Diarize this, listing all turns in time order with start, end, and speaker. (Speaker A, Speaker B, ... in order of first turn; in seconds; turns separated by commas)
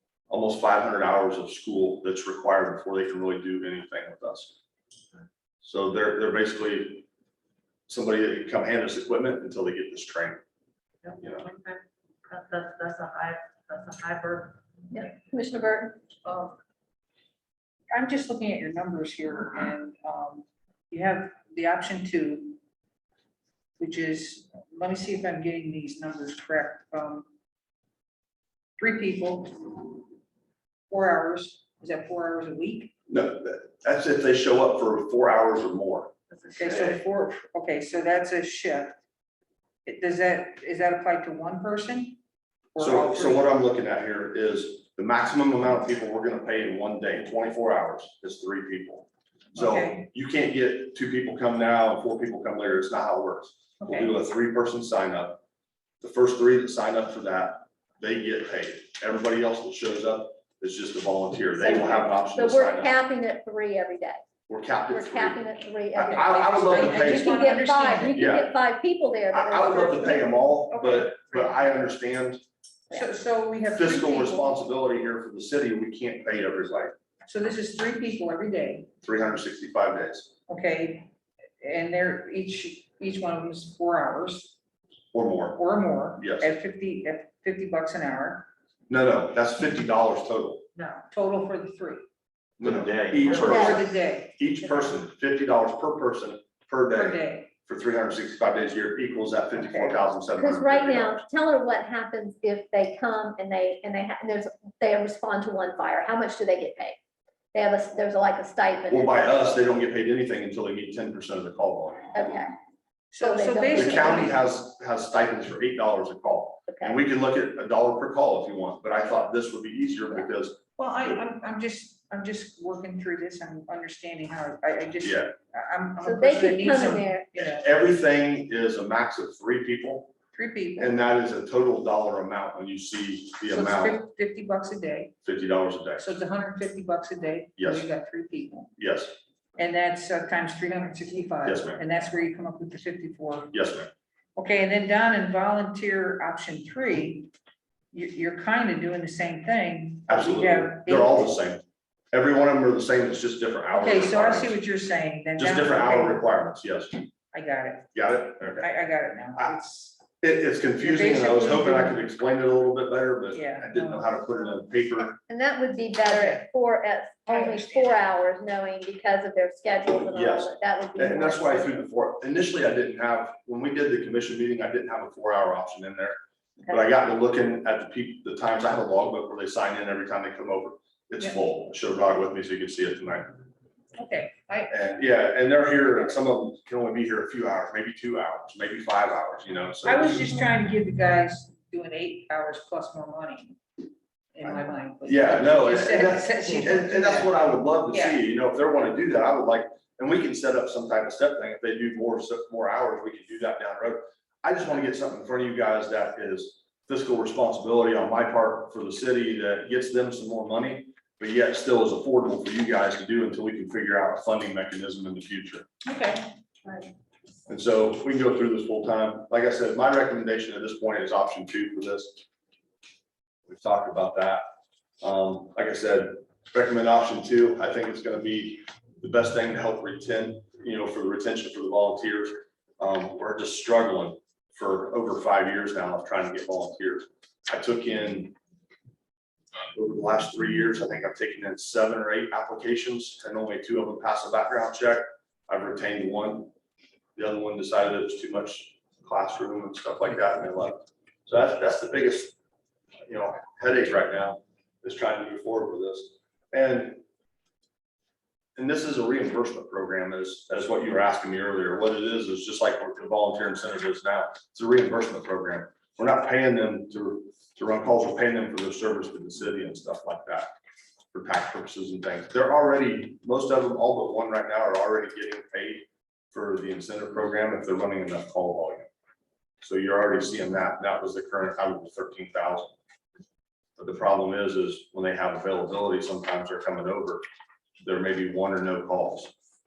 Speaker A: 0.3-4.5, Speaker A: 5.6-7.1, Speaker A: 7.9-10.4, Speaker B: 11.0-14.6, Speaker A: 11.2-11.4, Speaker C: 14.9-16.1, Speaker B: 16.2-16.6, Speaker D: 17.9-22.6, Speaker D: 23.8-27.3, Speaker D: 28.8-30.0, Speaker D: 30.9-32.9, Speaker A: 33.1-36.1, Speaker D: 36.5-39.0, Speaker A: 36.6-37.0, Speaker D: 39.9-42.2, Speaker D: 42.8-43.5, Speaker A: 42.8-55.4, Speaker D: 49.5-50.1, Speaker D: 53.8-54.1, Speaker A: 56.0-62.9, Speaker C: 61.6-64.2, Speaker A: 64.5-67.4, Speaker C: 64.9-70.3, Speaker D: 66.0-68.2, Speaker A: 68.1-68.5, Speaker A: 69.3-72.4, Speaker D: 70.7-71.7, Speaker D: 72.9-74.5, Speaker A: 73.7-76.9, Speaker D: 77.3-78.9, Speaker A: 79.0-80.3, Speaker D: 80.5-84.6, Speaker A: 85.1-85.6, Speaker D: 85.5-88.5, Speaker A: 86.2-86.5, Speaker A: 88.9-90.7, Speaker B: 90.8-91.0, Speaker D: 91.1-92.0, Speaker B: 92.6-93.8, Speaker A: 92.6-101.2, Speaker D: 93.3-94.9, Speaker C: 93.4-93.8, Speaker D: 96.9-97.5, Speaker D: 99.5-100.1, Speaker C: 100.4-107.0, Speaker C: 107.5-109.5, Speaker A: 108.9-112.2, Speaker C: 112.1-112.5, Speaker D: 113.1-114.3, Speaker C: 113.2-114.3, Speaker A: 113.7-120.6, Speaker C: 116.7-117.0, Speaker D: 120.8-127.7, Speaker A: 125.0-125.3, Speaker C: 126.0-127.3, Speaker A: 127.3-130.1, Speaker D: 130.3-130.9, Speaker A: 130.8-134.0, Speaker D: 133.5-135.2, Speaker A: 135.2-136.1, Speaker D: 136.0-138.7, Speaker A: 137.6-137.9, Speaker A: 138.8-139.2, Speaker D: 139.6-143.5, Speaker A: 141.4-141.8, Speaker A: 143.5-143.9, Speaker D: 144.4-147.3, Speaker D: 147.9-151.3, Speaker A: 150.1-154.6, Speaker D: 153.7-156.2, Speaker A: 155.4-157.0, Speaker D: 157.3-160.0, Speaker A: 157.9-158.7, Speaker A: 160.2-165.2, Speaker D: 160.8-162.0, Speaker D: 163.3-164.1, Speaker C: 165.3-171.8, Speaker D: 166.0-166.5, Speaker D: 167.3-168.0, Speaker A: 170.0-183.4, Speaker D: 184.0-184.7, Speaker A: 184.7-190.4, Speaker D: 189.8-193.6, Speaker D: 194.3-198.2, Speaker A: 195.0-215.7, Speaker D: 215.8-216.3, Speaker A: 217.5-222.2, Speaker A: 223.5-224.4, Speaker A: 225.0-238.3, Speaker A: 239.7-246.5, Speaker A: 247.2-252.4, Speaker A: 253.1-257.0, Speaker A: 258.6-270.5, Speaker A: 271.1-278.9, Speaker A: 279.6-282.8, Speaker A: 283.8-287.2, Speaker A: 287.8-289.3